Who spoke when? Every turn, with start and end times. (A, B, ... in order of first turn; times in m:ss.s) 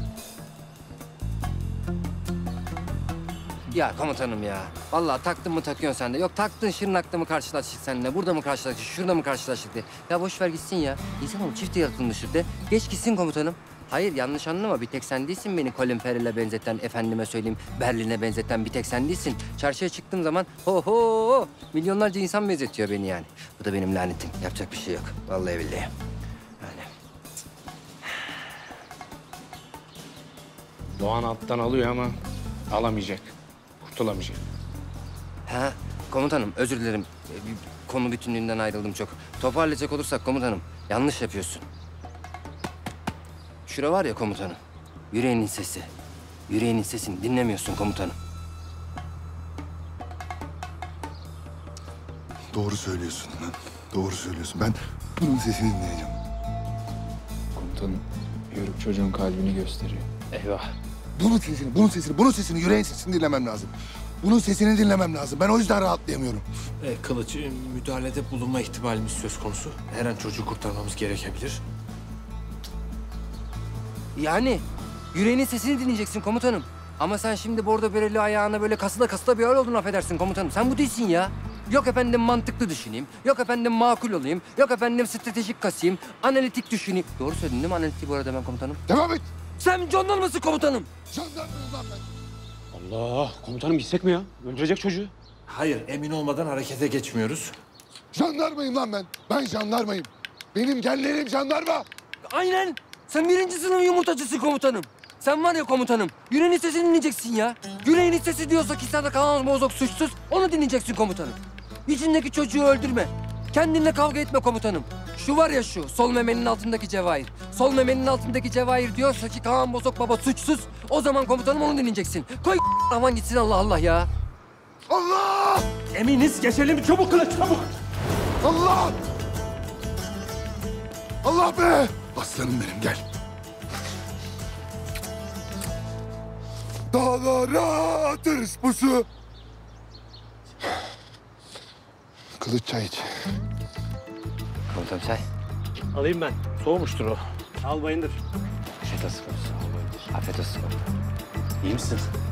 0:03.7-0:25.9 A
0:26.6-0:26.9 A
0:31.0-0:32.1 B
0:32.7-0:33.3 B
0:33.8-0:34.4 B
0:35.5-0:41.6 A
0:43.7-0:44.6 A
0:45.1-0:45.9 A
0:46.5-0:48.2 A
0:52.5-0:56.2 C
0:57.6-1:00.1 D
1:01.2-1:06.4 C
1:06.8-1:11.6 E
1:14.1-1:28.8 A
1:28.9-1:29.3 C
1:29.6-1:30.9 A
1:31.1-1:32.0 C
1:32.8-1:34.2 F
1:35.5-1:37.5 E
1:38.1-1:41.8 C
1:42.2-2:04.1 A
2:04.9-2:05.6 C
2:05.9-2:07.6 E
2:08.4-2:09.0 C
2:11.2-2:13.0 C
2:16.9-2:19.0 C
2:22.4-2:23.1 C
2:24.7-2:25.2 A
2:26.0-2:27.2 E
2:28.9-2:29.5 F
2:30.3-2:30.6 F